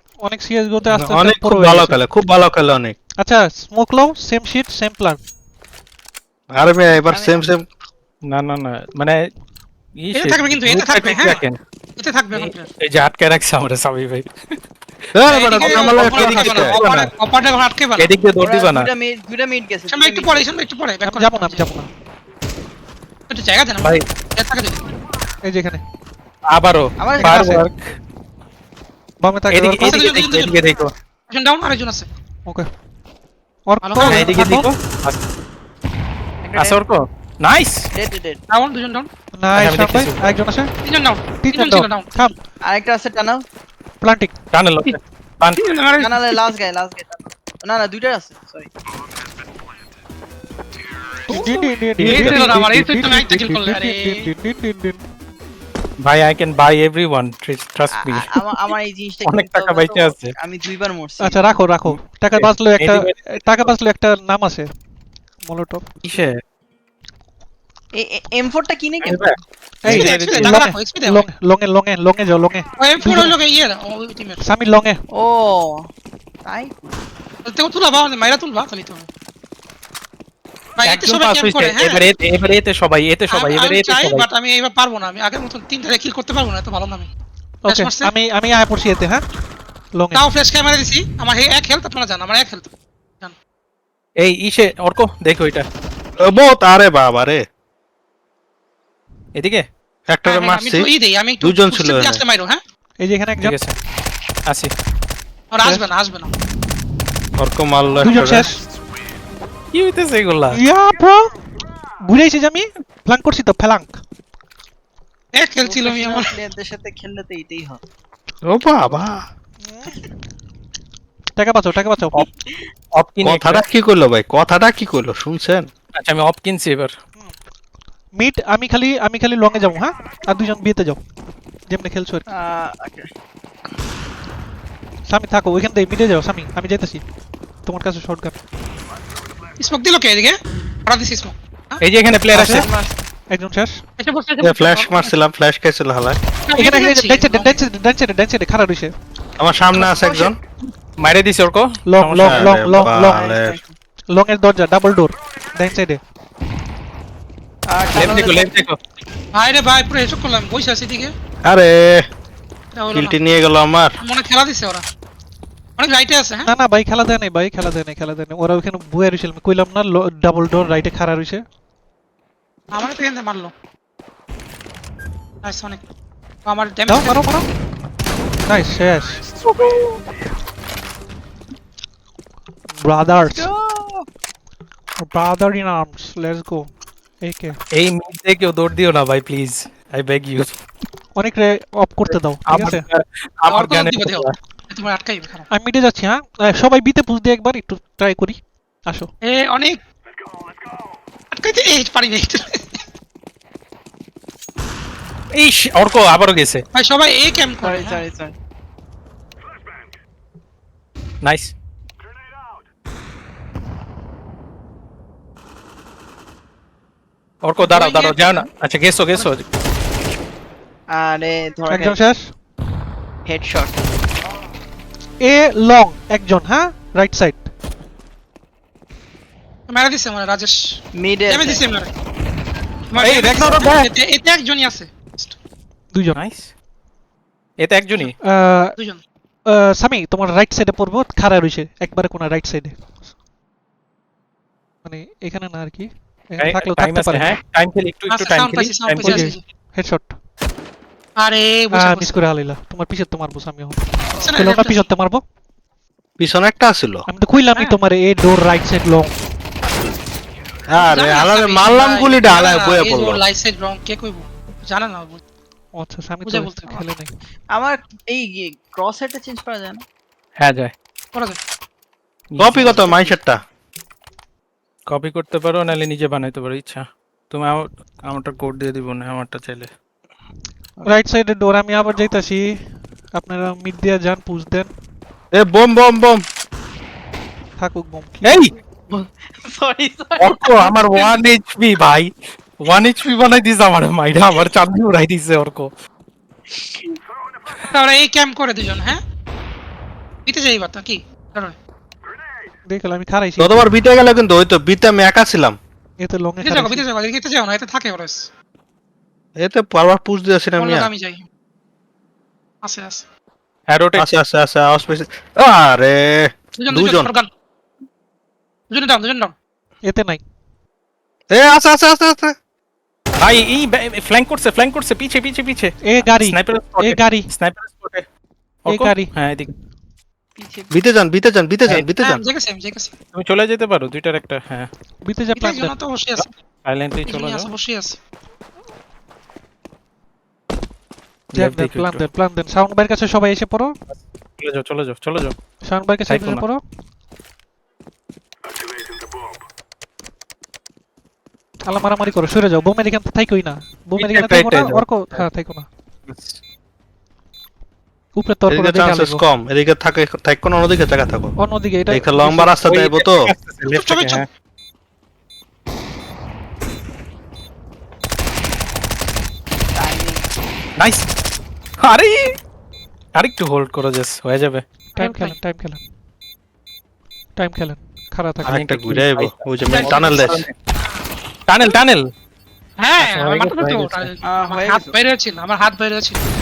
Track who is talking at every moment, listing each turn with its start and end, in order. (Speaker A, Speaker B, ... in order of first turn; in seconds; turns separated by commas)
Speaker A: 0.2-2.0, Speaker B: 0.9-3.0, Speaker A: 3.2-5.2, Speaker B: 6.5-7.6, Speaker C: 7.1-7.5, Speaker D: 8.3-9.2, Speaker D: 10.0-11.6, Speaker E: 10.1-11.4, Speaker E: 12.0-12.7, Speaker D: 12.3-14.6, Speaker B: 15.1-17.1, Speaker E: 15.3-18.1, Speaker D: 15.6-16.9, Speaker D: 18.0-18.9, Speaker C: 18.4-20.4, Speaker E: 19.9-21.6, Speaker A: 21.0-21.9, Speaker E: 23.3-24.8, Speaker A: 25.4-25.8, Speaker D: 26.5-27.9, Speaker C: 27.0-27.5, Speaker A: 27.2-27.6, Speaker A: 29.2-30.3, Speaker D: 29.5-30.9, Speaker E: 29.8-30.6, Speaker E: 31.3-32.1, Speaker A: 33.7-34.7, Speaker E: 33.8-34.3, Speaker D: 34.0-35.2, Speaker C: 36.4-36.8, Speaker D: 36.5-37.9, Speaker C: 37.9-38.4, Speaker E: 38.5-39.1, Speaker A: 39.4-40.7, Speaker D: 39.5-40.2, Speaker E: 40.8-42.2, Speaker A: 41.4-42.4, Speaker C: 42.6-43.4, Speaker A: 44.0-44.4, Speaker D: 44.5-45.6, Speaker E: 45.6-46.4, Speaker C: 46.0-48.7, Speaker E: 51.3-54.1, Speaker A: 51.3-55.0, Speaker B: 52.0-52.6, Speaker D: 56.0-58.4, Speaker C: 57.9-61.4, Speaker D: 59.2-60.3, Speaker A: 61.2-64.7, Speaker D: 61.9-63.3, Speaker A: 65.5-65.8, Speaker D: 66.0-66.4, Speaker C: 67.9-69.2, Speaker D: 69.0-70.6, Speaker A: 69.8-73.3, Speaker E: 69.8-71.2, Speaker E: 72.8-74.4, Speaker A: 74.4-75.0, Speaker C: 75.1-75.9, Speaker C: 76.4-77.0, Speaker E: 77.4-79.1, Speaker E: 80.8-82.0, Speaker D: 80.8-84.3, Speaker E: 83.3-87.1, Speaker A: 87.6-89.2, Speaker E: 87.7-88.1, Speaker A: 90.0-90.2, Speaker E: 90.1-92.7, Speaker D: 94.2-95.7, Speaker B: 96.2-97.4, Speaker D: 99.3-99.6, Speaker B: 100.1-100.9, Speaker E: 100.2-102.6, Speaker B: 101.4-102.2, Speaker A: 103.0-103.6, Speaker D: 103.4-103.7, Speaker E: 105.5-106.3, Speaker B: 107.4-108.5, Speaker E: 108.0-108.5, Speaker A: 108.0-108.6, Speaker D: 109.7-110.6, Speaker A: 110.5-111.3, Speaker A: 112.0-114.0, Speaker E: 115.3-116.3, Speaker C: 115.6-117.8, Speaker B: 118.5-119.3, Speaker A: 119.6-120.0, Speaker A: 121.4-122.2, Speaker D: 122.9-123.6, Speaker B: 123.2-125.7, Speaker D: 126.0-127.0, Speaker A: 128.1-131.0, Speaker A: 131.7-132.2, Speaker C: 132.3-133.1, Speaker A: 135.1-137.0, Speaker A: 137.6-138.4, Speaker E: 139.6-141.8, Speaker D: 141.8-142.7, Speaker C: 142.3-142.9, Speaker A: 143.3-143.8, Speaker E: 144.0-145.1, Speaker B: 144.4-146.2, Speaker E: 146.5-147.6, Speaker A: 146.6-148.9, Speaker B: 149.4-150.4, Speaker E: 149.7-150.3, Speaker D: 151.0-152.5, Speaker A: 151.9-153.2, Speaker B: 152.2-153.6, Speaker C: 152.9-153.8, Speaker A: 154.1-156.0, Speaker C: 157.7-158.7, Speaker D: 157.9-158.8, Speaker E: 159.3-161.1, Speaker B: 161.5-162.0, Speaker E: 162.7-163.2, Speaker B: 162.9-163.9, Speaker E: 164.0-164.8, Speaker E: 165.8-166.5, Speaker A: 166.5-171.4, Speaker E: 172.7-173.5, Speaker E: 175.4-175.8, Speaker E: 176.4-177.2, Speaker A: 176.9-177.4, Speaker A: 178.5-179.2, Speaker C: 179.4-180.0, Speaker A: 182.8-183.5, Speaker C: 183.2-184.1, Speaker A: 185.0-186.7, Speaker A: 187.2-187.6, Speaker D: 187.7-190.6, Speaker A: 191.2-192.8, Speaker D: 192.1-194.3, Speaker E: 193.5-195.5, Speaker A: 195.5-199.1, Speaker E: 199.2-199.8, Speaker E: 201.3-202.8, Speaker D: 205.3-206.6, Speaker E: 206.7-208.0, Speaker C: 207.6-208.3, Speaker D: 211.2-211.5, Speaker D: 217.4-219.4, Speaker E: 217.6-218.4, Speaker C: 220.9-222.0, Speaker A: 221.7-222.3, Speaker C: 223.2-223.8, Speaker A: 225.2-227.5, Speaker E: 229.7-231.9, Speaker C: 230.9-231.6, Speaker E: 232.9-235.4, Speaker D: 233.0-233.9, Speaker A: 235.9-236.2, Speaker D: 236.1-236.5, Speaker D: 237.6-238.2, Speaker A: 238.2-238.7, Speaker A: 239.5-243.0, Speaker A: 244.8-247.3, Speaker D: 246.4-249.3, Speaker E: 248.1-249.4, Speaker A: 249.0-250.1, Speaker E: 251.2-252.2, Speaker A: 251.7-255.2, Speaker E: 254.2-254.9, Speaker B: 256.2-257.1, Speaker A: 257.1-259.1, Speaker B: 260.7-263.2, Speaker E: 260.9-265.2, Speaker A: 265.8-267.1, Speaker E: 266.2-266.8, Speaker C: 267.5-269.8, Speaker D: 270.4-270.7, Speaker D: 272.3-273.1, Speaker B: 272.4-273.4, Speaker D: 274.9-279.7, Speaker A: 280.8-284.7, Speaker B: 285.3-286.2, Speaker A: 287.6-288.4, Speaker D: 288.2-288.5, Speaker C: 288.9-291.2, Speaker D: 290.2-295.7, Speaker E: 297.6-299.0, Speaker E: 300.2-301.6, Speaker A: 302.7-303.7, Speaker B: 303.4-305.6, Speaker A: 306.0-306.8, Speaker E: 306.4-308.3, Speaker B: 309.4-310.9, Speaker E: 310.6-311.2, Speaker E: 312.6-313.1, Speaker D: 313.7-314.1, Speaker B: 314.0-317.1, Speaker E: 316.6-317.3, Speaker E: 318.7-319.3, Speaker A: 319.9-320.2, Speaker B: 321.3-322.3, Speaker D: 323.2-328.0, Speaker A: 325.8-327.3, Speaker D: 328.6-329.5, Speaker A: 328.7-329.1, Speaker C: 330.4-330.7, Speaker B: 330.7-332.2, Speaker E: 332.0-332.9, Speaker D: 333.1-334.7, Speaker A: 335.0-335.7, Speaker E: 335.4-336.3, Speaker D: 336.2-337.5, Speaker E: 337.0-338.0, Speaker D: 341.3-342.0, Speaker A: 341.3-343.7, Speaker D: 343.9-345.3, Speaker A: 345.7-346.6, Speaker D: 346.1-346.4, Speaker A: 351.7-355.7, Speaker D: 354.0-355.2, Speaker D: 356.1-356.4, Speaker A: 358.1-359.2, Speaker B: 358.5-361.3, Speaker A: 361.4-362.6, Speaker B: 361.9-363.3, Speaker D: 362.6-364.2, Speaker E: 363.6-364.2, Speaker C: 369.8-370.2, Speaker D: 370.8-371.1, Speaker D: 371.8-372.4, Speaker D: 373.1-374.6, Speaker E: 375.0-375.3, Speaker A: 375.0-375.8, Speaker A: 377.4-378.9, Speaker D: 378.5-380.5, Speaker B: 378.5-380.4, Speaker E: 379.7-380.3, Speaker D: 381.5-382.1, Speaker E: 382.8-386.2, Speaker D: 383.0-384.1, Speaker C: 384.2-384.9